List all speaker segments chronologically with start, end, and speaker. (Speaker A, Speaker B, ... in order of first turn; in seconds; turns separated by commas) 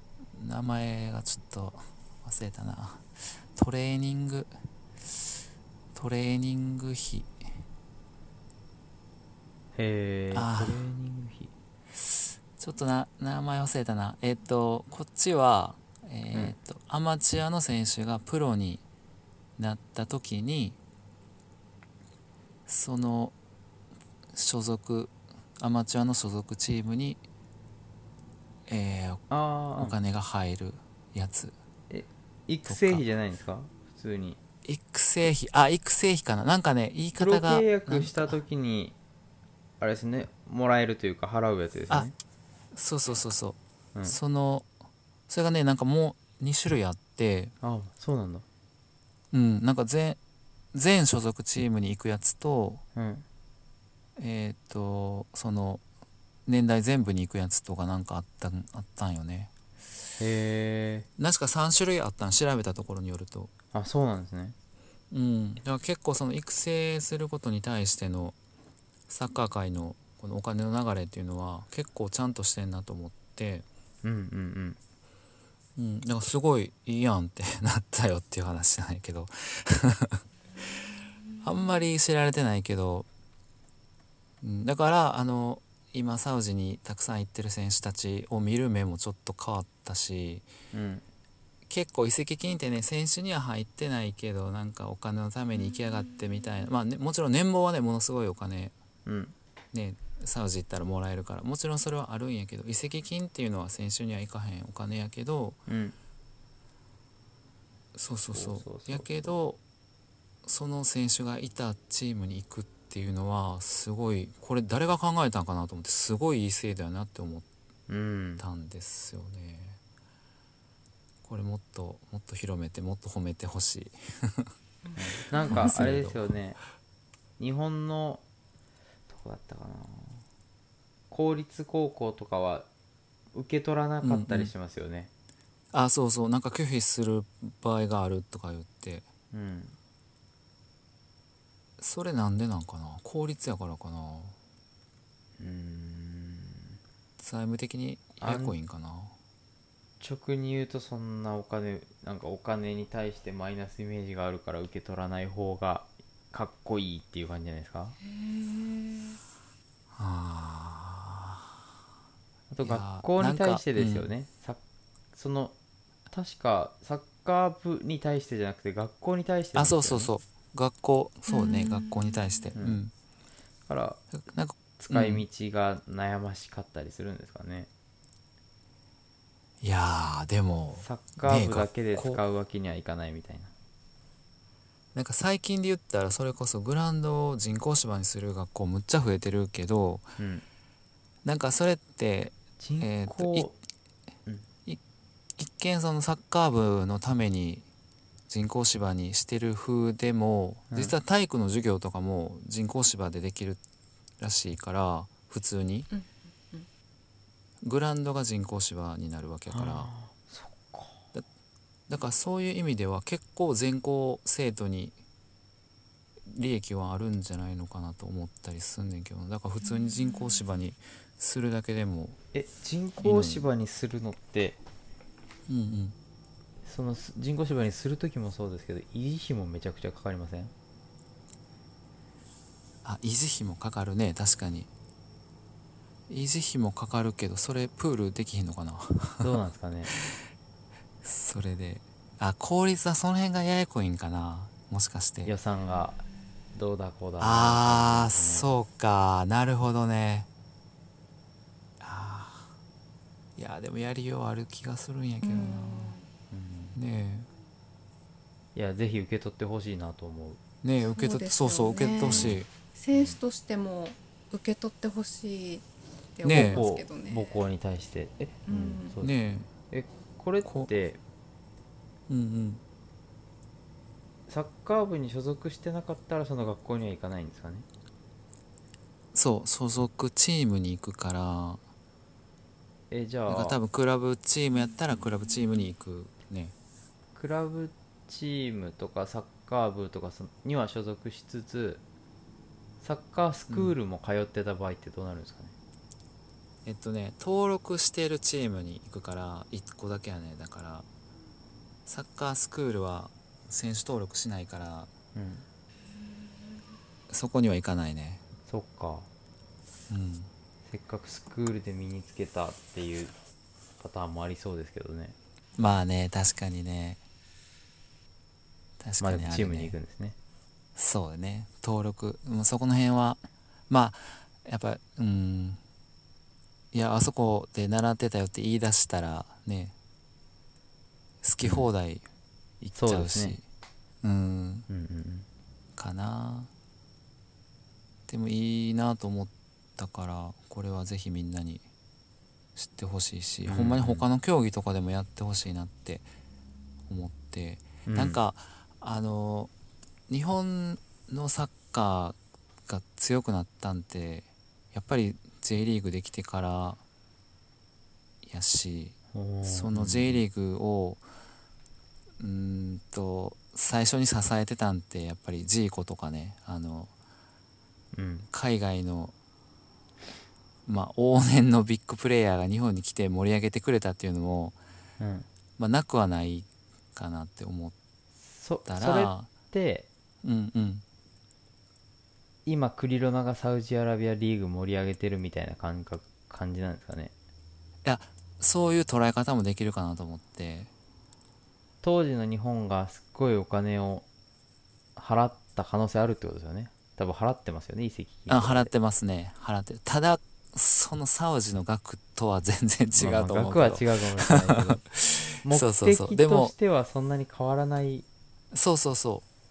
Speaker A: 0.3-5.4, Speaker A: 5.9-7.3, Speaker B: 9.8-11.5, Speaker A: 10.3-10.8, Speaker A: 11.9-18.8, Speaker A: 19.6-20.8, Speaker A: 22.7-23.3, Speaker A: 24.3-27.2, Speaker A: 28.7-29.2, Speaker B: 29.3-30.0, Speaker A: 29.8-31.5, Speaker B: 31.9-34.4, Speaker A: 32.7-33.0, Speaker A: 34.6-38.4, Speaker B: 37.2-39.0, Speaker B: 39.8-42.1, Speaker A: 42.7-44.7, Speaker A: 45.3-47.5, Speaker B: 47.6-48.5, Speaker A: 49.3-50.2, Speaker A: 50.7-52.8, Speaker B: 53.0-53.2, Speaker A: 54.2-55.8, Speaker A: 56.5-59.5, Speaker B: 60.2-61.1, Speaker A: 61.2-63.5, Speaker B: 63.7-64.5, Speaker A: 65.1-68.4, Speaker A: 69.1-73.7, Speaker B: 74.0-74.8, Speaker A: 75.8-80.2, Speaker A: 81.4-83.1, Speaker A: 84.4-90.5, Speaker B: 90.7-91.0, Speaker A: 91.7-98.8, Speaker B: 99.1-99.3, Speaker A: 99.7-105.6, Speaker B: 105.7-106.0, Speaker A: 107.9-109.6, Speaker B: 108.3-109.3, Speaker A: 110.5-117.5, Speaker B: 117.9-118.4, Speaker A: 118.4-119.8, Speaker A: 121.2-124.5, Speaker C: 124.8-125.7, Speaker B: 125.0-126.6, Speaker A: 125.5-126.3, Speaker B: 127.4-128.2, Speaker B: 129.1-130.2, Speaker B: 131.1-132.7, Speaker B: 133.3-135.1, Speaker A: 134.0-134.5, Speaker A: 135.7-139.1, Speaker B: 139.3-139.8, Speaker A: 141.8-144.4, Speaker B: 145.4-146.8, Speaker A: 147.2-149.1, Speaker B: 148.2-148.6, Speaker B: 150.0-158.0, Speaker C: 158.1-159.2, Speaker A: 159.9-161.5, Speaker B: 162.5-164.6, Speaker A: 162.6-164.1, Speaker B: 165.1-165.6, Speaker B: 166.1-170.1, Speaker A: 169.6-172.9, Speaker C: 171.3-172.5, Speaker B: 172.6-172.8, Speaker B: 173.7-174.0, Speaker A: 174.1-175.3, Speaker B: 174.8-177.7, Speaker A: 179.6-182.2, Speaker B: 180.8-183.5, Speaker A: 184.9-190.1, Speaker B: 190.2-190.4, Speaker A: 191.2-193.5, Speaker B: 192.6-193.6, Speaker A: 195.4-197.7, Speaker A: 198.3-203.6, Speaker A: 204.2-205.9, Speaker C: 205.9-206.7, Speaker A: 207.6-209.9, Speaker B: 209.5-211.0, Speaker A: 211.9-215.0, Speaker A: 216.3-222.2, Speaker C: 219.8-220.4, Speaker B: 222.3-224.6, Speaker A: 223.0-223.5, Speaker A: 225.5-226.0, Speaker B: 226.6-230.5, Speaker A: 232.8-234.7, Speaker A: 236.1-239.4, Speaker B: 239.2-239.9, Speaker A: 239.9-240.2, Speaker A: 241.0-245.3, Speaker B: 245.2-248.5, Speaker A: 247.2-250.3, Speaker A: 251.8-252.5, Speaker A: 253.4-256.0, Speaker C: 255.2-256.1, Speaker B: 256.3-256.8, Speaker A: 256.8-257.3, Speaker B: 258.6-260.4, Speaker A: 260.6-262.5, Speaker C: 260.9-267.4, Speaker B: 262.1-262.4, Speaker B: 262.9-263.2, Speaker A: 266.2-266.7, Speaker B: 266.4-271.0, Speaker C: 268.5-268.9, Speaker A: 269.0-269.5, Speaker A: 270.4-270.7, Speaker A: 272.1-272.6, Speaker B: 274.3-277.7, Speaker A: 279.1-281.6, Speaker B: 282.9-283.6, Speaker A: 283.3-286.6, Speaker B: 287.1-291.8, Speaker B: 292.8-295.6, Speaker A: 293.5-293.8, Speaker A: 296.6-300.9, Speaker A: 301.9-304.9, Speaker B: 305.1-305.5, Speaker A: 307.1-308.2, Speaker B: 308.5-309.1, Speaker A: 309.9-310.3, Speaker B: 310.7-313.1, Speaker B: 313.8-315.2, Speaker A: 315.6-317.0, Speaker A: 318.8-319.8, Speaker B: 319.0-320.2, Speaker A: 320.8-323.2, Speaker A: 323.7-325.6, Speaker A: 326.7-329.7, Speaker A: 331.2-332.1, Speaker B: 331.4-331.7, Speaker A: 332.6-333.4, Speaker B: 332.8-333.4, Speaker A: 334.0-334.7, Speaker B: 334.7-335.3, Speaker A: 335.8-336.5, Speaker A: 338.1-341.6, Speaker A: 342.6-346.1, Speaker B: 343.4-344.1, Speaker A: 346.9-349.5, Speaker B: 347.9-348.2, Speaker A: 350.1-356.8, Speaker A: 358.2-361.0, Speaker B: 359.1-360.2, Speaker A: 362.2-366.9, Speaker B: 367.9-368.3, Speaker A: 368.3-369.1, Speaker A: 370.7-374.6, Speaker B: 375.0-375.3, Speaker A: 375.6-377.8, Speaker B: 378.2-379.9, Speaker A: 378.6-379.3, Speaker A: 380.2-380.8, Speaker B: 382.5-387.1, Speaker A: 387.8-390.7, Speaker B: 391.8-394.1, Speaker B: 395.0-398.7, Speaker A: 398.3-406.5, Speaker B: 403.0-404.8, Speaker B: 405.4-408.1, Speaker A: 408.5-409.2